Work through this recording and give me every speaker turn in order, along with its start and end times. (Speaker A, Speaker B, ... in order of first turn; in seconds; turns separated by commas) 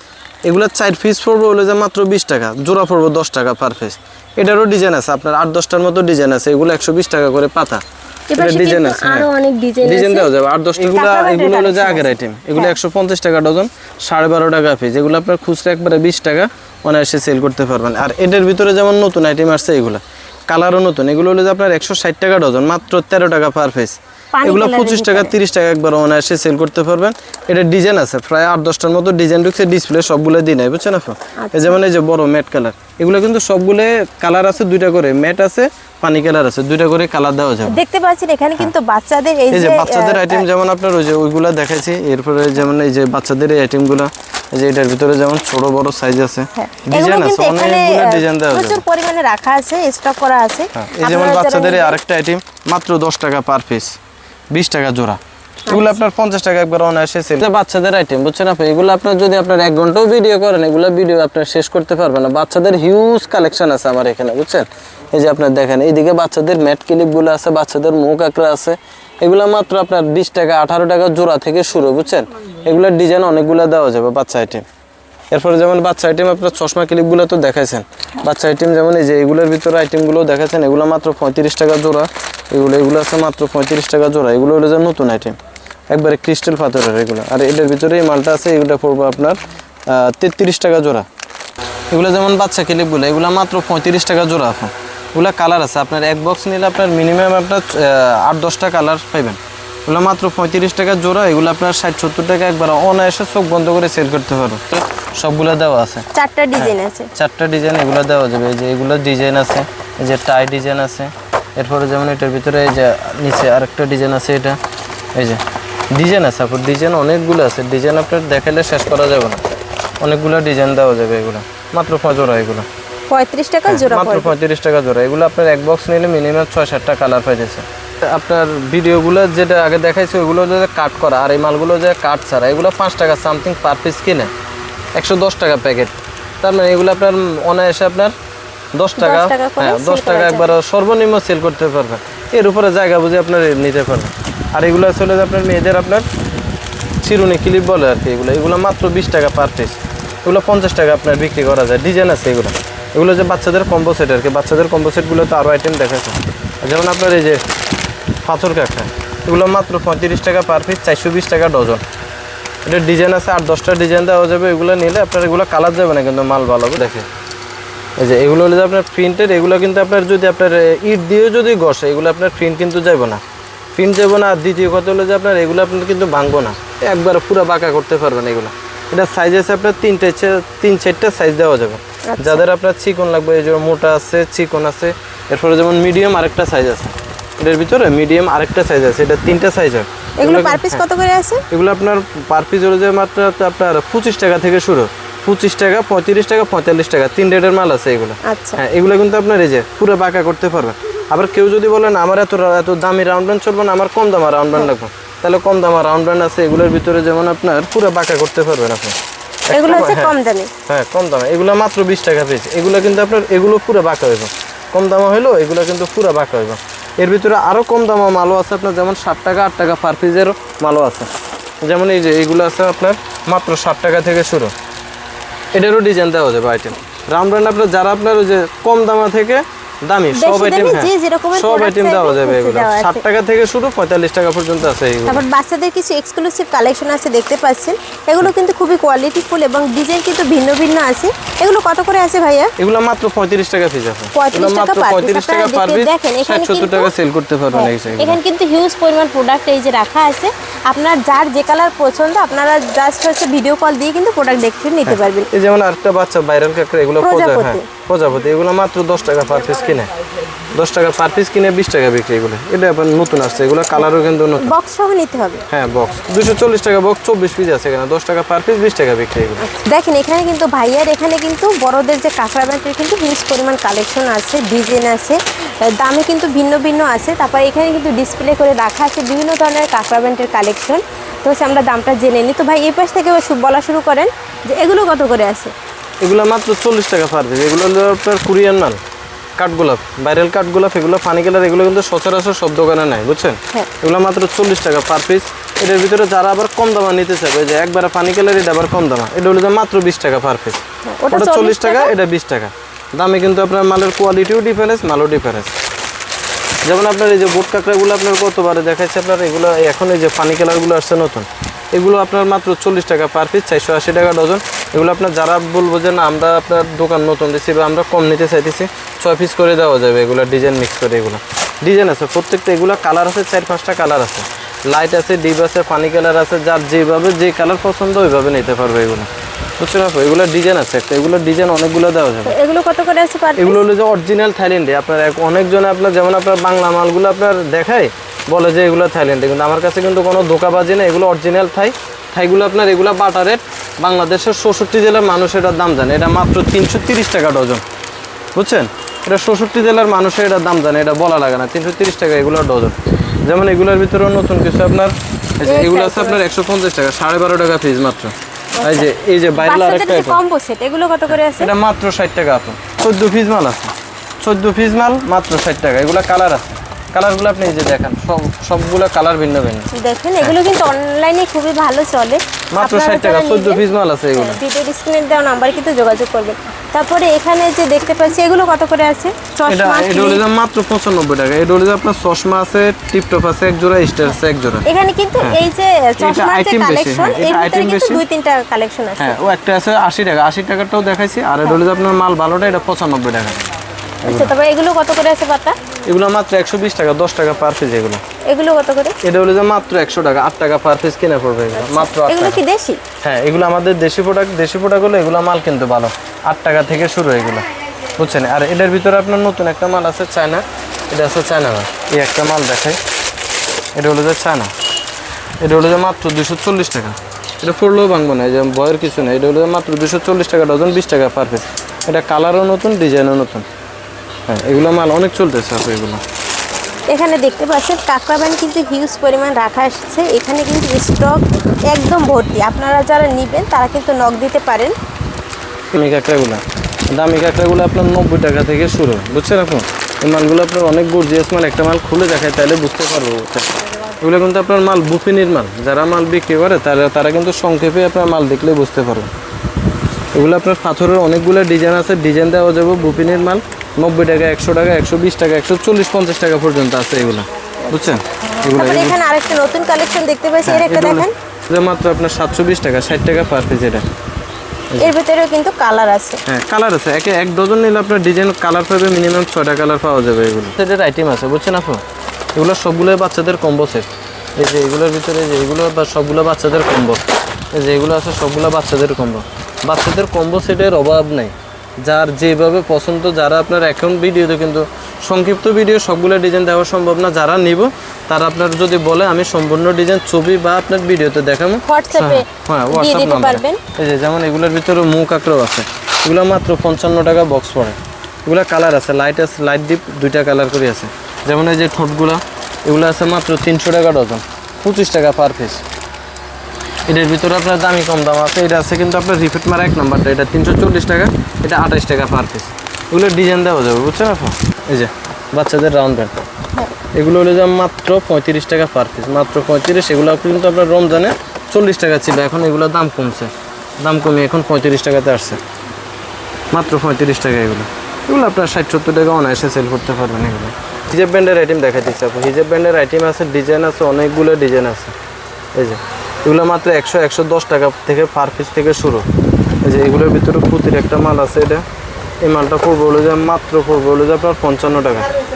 Speaker A: 0.5-7.8, Speaker B: 8.3-12.8, Speaker A: 8.3-9.3, Speaker A: 9.8-37.8, Speaker B: 24.3-25.3, Speaker B: 31.4-31.8, Speaker B: 37.6-40.4, Speaker A: 39.5-48.8, Speaker B: 46.5-52.0, Speaker A: 50.7-54.0, Speaker A: 54.5-74.7, Speaker B: 55.7-56.0, Speaker A: 75.3-85.4, Speaker A: 85.9-91.0, Speaker A: 91.9-106.0, Speaker B: 106.1-107.1, Speaker A: 106.6-114.6, Speaker A: 115.1-115.4, Speaker A: 115.9-119.4, Speaker A: 120.0-122.7, Speaker B: 123.1-124.3, Speaker A: 123.7-134.3, Speaker A: 134.9-138.1, Speaker A: 138.7-146.1, Speaker B: 139.0-140.5, Speaker A: 147.0-157.4, Speaker A: 158.2-161.8, Speaker A: 162.7-167.1, Speaker A: 168.0-173.2, Speaker A: 173.7-190.8, Speaker B: 182.1-182.4, Speaker B: 190.2-191.4, Speaker A: 191.5-208.9, Speaker B: 198.2-198.6, Speaker A: 209.5-210.1, Speaker B: 209.5-210.5, Speaker A: 210.7-221.1, Speaker A: 221.6-224.5, Speaker A: 225.5-235.2, Speaker B: 230.1-233.0, Speaker B: 235.1-242.5, Speaker A: 242.6-248.2, Speaker B: 244.1-246.9, Speaker B: 247.5-255.3, Speaker A: 254.8-259.9, Speaker B: 257.0-257.6, Speaker A: 260.5-264.5, Speaker B: 264.4-265.4, Speaker A: 265.5-269.4, Speaker B: 269.4-285.5, Speaker A: 286.0-288.8, Speaker A: 289.4-305.5, Speaker B: 300.9-301.9, Speaker A: 306.6-332.3, Speaker B: 332.2-333.6, Speaker A: 333.4-347.6, Speaker A: 348.3-360.2, Speaker B: 355.4-356.3, Speaker B: 358.5-361.5, Speaker A: 361.1-369.7, Speaker B: 369.7-380.2, Speaker A: 372.5-374.4, Speaker A: 379.5-384.6, Speaker B: 384.6-389.2, Speaker A: 386.0-388.0, Speaker A: 389.0-393.4, Speaker A: 394.0-394.3, Speaker B: 394.0-395.5, Speaker A: 395.9-398.0, Speaker B: 398.2-399.0, Speaker A: 399.0-402.4, Speaker B: 401.5-402.8, Speaker A: 403.0-412.8, Speaker A: 413.7-414.5, Speaker A: 415.4-423.4, Speaker A: 424.3-426.0, Speaker B: 426.9-434.7, Speaker A: 435.7-449.1, Speaker A: 450.1-459.0, Speaker B: 457.7-461.1, Speaker A: 460.4-463.8, Speaker B: 464.8-466.2, Speaker A: 466.2-471.8, Speaker A: 472.4-477.0, Speaker A: 477.5-505.6, Speaker B: 491.6-493.6, Speaker A: 506.9-516.2, Speaker A: 516.9-525.4, Speaker A: 526.5-534.9, Speaker A: 535.5-539.1, Speaker A: 539.6-541.6, Speaker A: 542.2-545.1